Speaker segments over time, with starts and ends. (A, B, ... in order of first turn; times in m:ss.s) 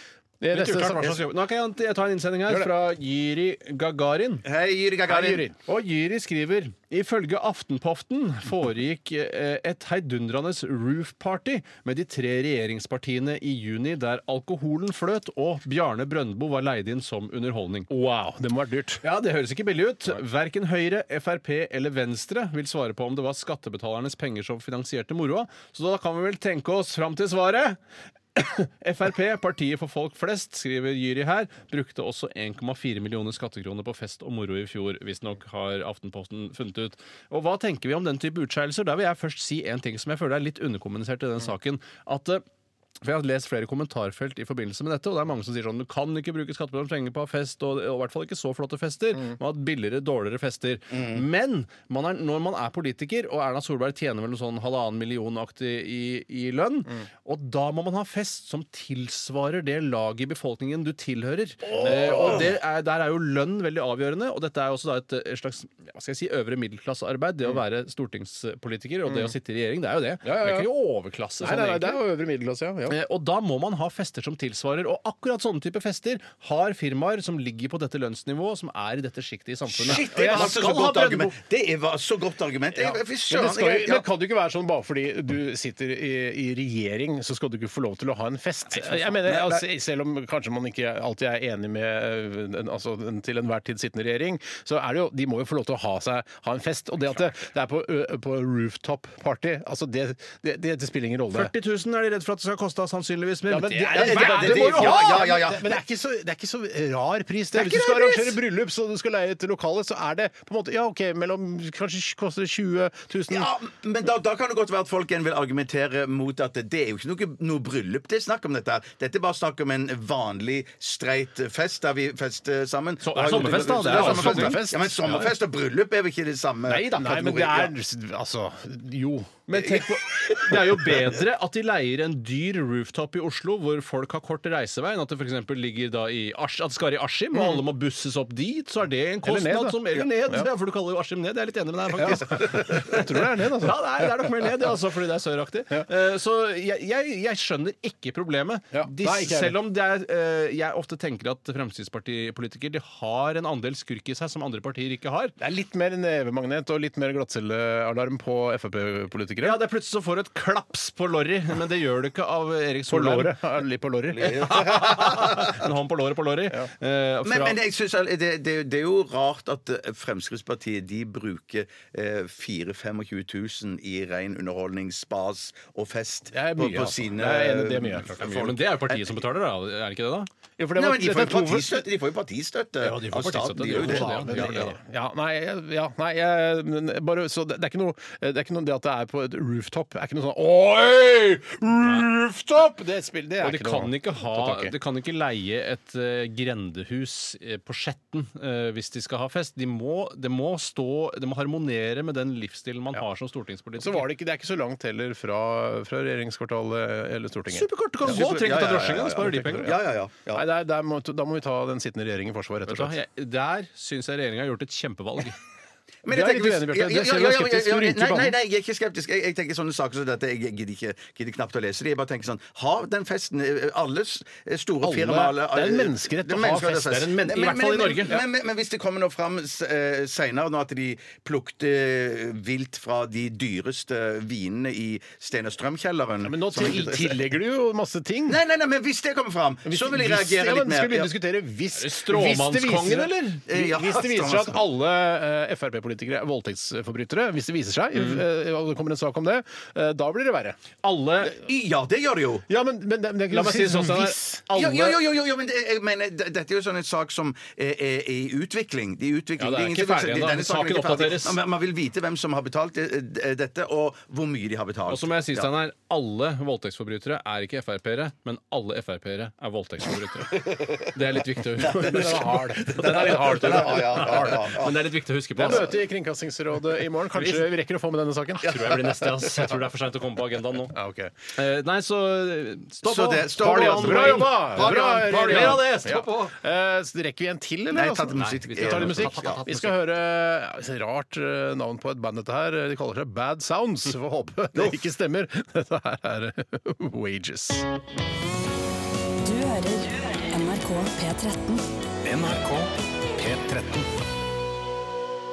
0:00.4-0:01.2 A
0:00.5-0:04.4 B
0:04.4-0:05.4 C
0:05.1-0:05.6 A
0:05.6-0:17.9 B
0:17.9-0:19.0 A
0:19.0-0:27.8 B
0:28.3-0:42.4 B
0:43.0-1:12.0 B
0:50.9-0:51.2 C
1:01.6-1:02.5 C
1:01.8-1:02.5 A
1:09.1-1:09.3 A
1:10.2-1:10.7 A
1:11.4-1:13.0 A
1:12.9-1:21.3 B
1:19.8-1:20.8 A
1:19.8-1:24.0 C
1:22.8-1:41.5 A
1:29.1-1:29.6 C
1:41.3-1:45.2 B
1:43.5-1:53.5 A
1:43.9-1:45.8 C
1:47.5-1:48.3 C
1:53.3-2:07.7 C
2:03.0-2:05.2 B
2:03.2-2:05.3 A
2:06.7-2:09.4 A
2:09.5-2:35.3 B
2:09.6-2:09.8 C
2:17.3-2:17.6 A
2:19.2-2:20.5 A
2:22.0-2:24.5 A
2:28.7-2:29.6 A
2:35.4-2:39.6 A
2:39.4-2:43.4 B
2:42.9-2:44.4 A
2:44.1-2:45.6 C
2:44.2-2:47.6 B
2:47.2-2:59.1 C
2:56.3-2:58.2 A
2:58.2-3:00.3 B
3:00.6-3:01.8 A
3:00.7-3:04.7 C
3:02.8-3:04.7 B
3:03.6-3:14.7 A
3:13.4-3:24.1 B
3:23.8-3:27.7 A
3:27.5-3:29.8 B
3:28.0-3:30.4 C
3:29.2-3:29.8 A
3:30.3-3:33.0 A
3:32.7-3:35.4 B
3:36.0-3:57.2 C
3:36.1-3:38.4 A
3:44.8-3:46.9 A
3:46.8-3:48.2 B
3:56.2-3:58.4 A
3:58.3-4:01.1 C
3:59.6-4:10.6 A
4:01.7-4:03.4 B
4:03.5-4:04.6 C
4:07.9-4:08.2 B
4:10.8-4:11.4 B
4:11.2-4:12.4 C
4:12.5-4:14.4 A
4:13.3-4:15.0 B
4:14.5-4:25.5 C
4:19.4-4:21.4 B
4:24.9-4:35.7 B
4:30.4-4:30.9 C
4:31.6-4:34.9 C
4:31.7-4:34.4 A
4:35.4-4:38.6 A
4:37.1-4:37.5 B
4:38.4-4:40.7 B
4:38.4-4:39.5 C
4:40.7-4:41.1 A
4:41.4-4:46.3 B
4:42.8-4:45.7 C
4:43.4-4:57.6 A
4:47.7-4:49.4 C
4:48.1-4:49.8 B
4:59.2-5:01.6 D
5:03.2-5:03.9 A